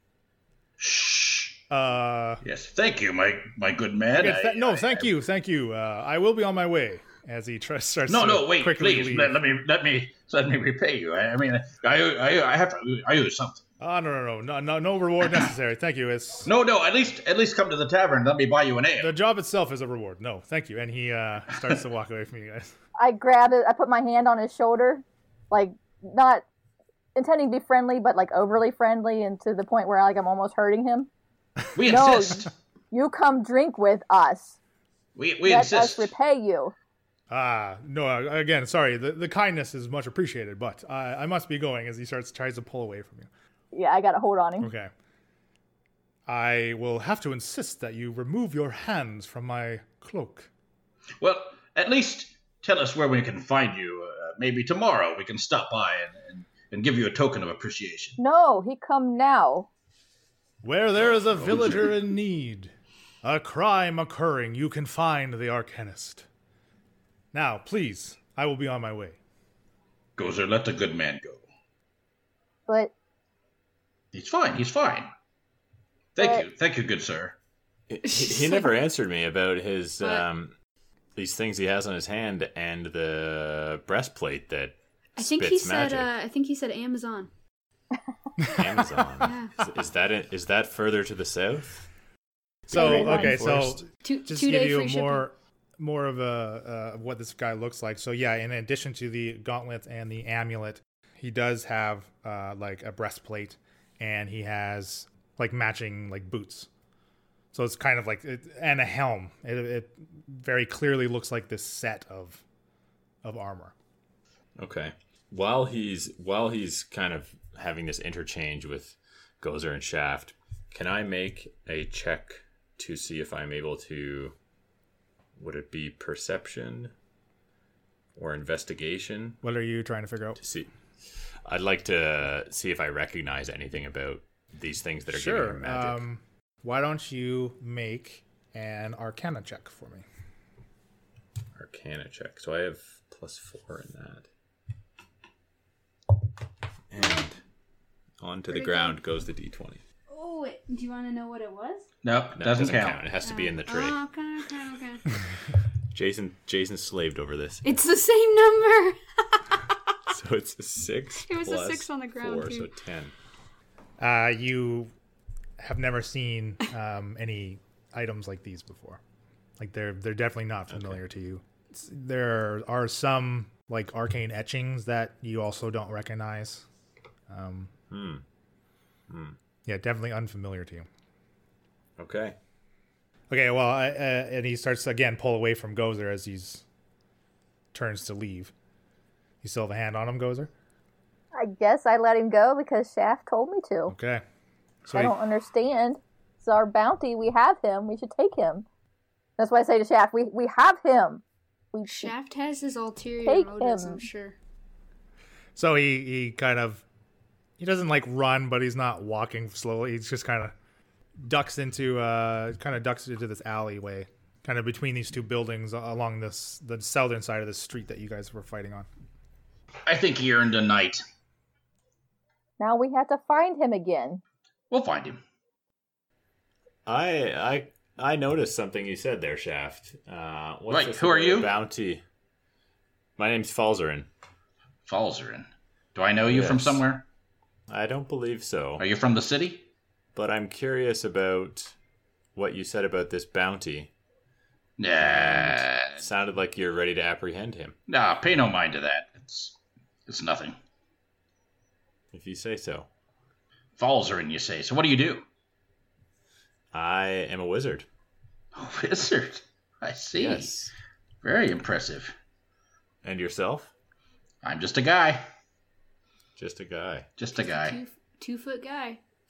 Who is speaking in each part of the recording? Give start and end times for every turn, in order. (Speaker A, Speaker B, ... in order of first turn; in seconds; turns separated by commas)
Speaker A: 0.8-1.6, Speaker B: 1.7-2.4, Speaker A: 2.4-5.1, Speaker B: 4.2-9.3, Speaker A: 8.1-13.6, Speaker B: 13.8-16.5, Speaker A: 16.4-19.1, Speaker B: 19.0-22.7, Speaker C: 23.0-26.4, Speaker C: 27.1-31.1, Speaker A: 31.8-32.5, Speaker C: 31.8-34.5, Speaker A: 35.1-36.1, Speaker C: 35.4-36.7, Speaker B: 37.3-43.3, Speaker C: 43.7-44.7, Speaker B: 44.6-44.9, Speaker B: 46.3-50.5, Speaker A: 51.2-58.2, Speaker C: 58.2-59.7, Speaker B: 60.6-62.7, Speaker A: 61.0-61.9, Speaker B: 63.2-66.2, Speaker B: 67.3-69.2, Speaker A: 70.2-71.4, Speaker A: 74.1-75.1, Speaker A: 76.1-77.3, Speaker C: 76.2-76.4, Speaker D: 77.9-80.5, Speaker E: 78.1-78.7, Speaker E: 80.0-80.2, Speaker D: 81.2-86.1, Speaker E: 85.2-87.3, Speaker B: 88.4-88.6, Speaker D: 88.5-91.9, Speaker E: 89.2-89.6, Speaker B: 92.7-106.7, Speaker D: 92.7-93.8, Speaker C: 92.7-93.3, Speaker E: 92.8-93.3, Speaker E: 94.0-95.3, Speaker B: 107.5-112.4, Speaker B: 113.2-113.7, Speaker D: 114.6-124.3, Speaker D: 125.4-126.9, Speaker D: 128.1-129.4, Speaker B: 129.4-130.4, Speaker D: 130.4-136.0, Speaker B: 135.1-140.0, Speaker D: 141.6-144.3, Speaker D: 146.9-147.4, Speaker D: 148.2-149.8, Speaker E: 148.5-149.0, Speaker E: 150.1-151.9, Speaker A: 152.0-153.0, Speaker D: 152.3-154.0, Speaker E: 153.2-155.1, Speaker D: 155.9-157.8, Speaker E: 157.6-159.6, Speaker D: 160.1-163.1, Speaker E: 161.2-162.7, Speaker B: 164.0-164.9, Speaker B: 165.6-169.0, Speaker B: 169.6-176.6, Speaker D: 170.7-171.0, Speaker B: 177.3-177.7, Speaker D: 177.9-178.2, Speaker D: 179.1-179.4, Speaker B: 179.7-180.9, Speaker D: 182.0-182.3, Speaker B: 183.3-186.6, Speaker B: 187.7-188.5, Speaker B: 189.4-190.5, Speaker C: 191.3-193.9, Speaker B: 193.9-194.2, Speaker B: 194.8-195.1, Speaker C: 194.9-198.6, Speaker C: 199.4-202.1, Speaker E: 201.8-204.3, Speaker C: 203.2-204.0, Speaker B: 205.6-206.8, Speaker B: 207.6-210.5, Speaker B: 211.2-218.9, Speaker A: 219.9-221.0, Speaker C: 222.6-224.2, Speaker A: 224.7-225.2, Speaker D: 226.8-232.0, Speaker A: 230.7-231.5, Speaker D: 233.2-234.1, Speaker A: 234.8-237.0, Speaker D: 236.2-236.8, Speaker D: 237.7-238.8, Speaker A: 238.8-239.7, Speaker D: 240.1-241.8, Speaker D: 242.3-243.9, Speaker A: 244.8-246.0, Speaker D: 245.0-247.8, Speaker A: 247.9-250.6, Speaker D: 252.1-252.9, Speaker A: 253.8-255.2, Speaker D: 256.7-257.9, Speaker A: 258.5-260.5, Speaker D: 260.1-260.7, Speaker A: 261.2-262.1, Speaker D: 263.0-263.7, Speaker A: 264.4-265.2, Speaker D: 266.4-267.1, Speaker A: 267.2-267.8, Speaker E: 267.4-269.0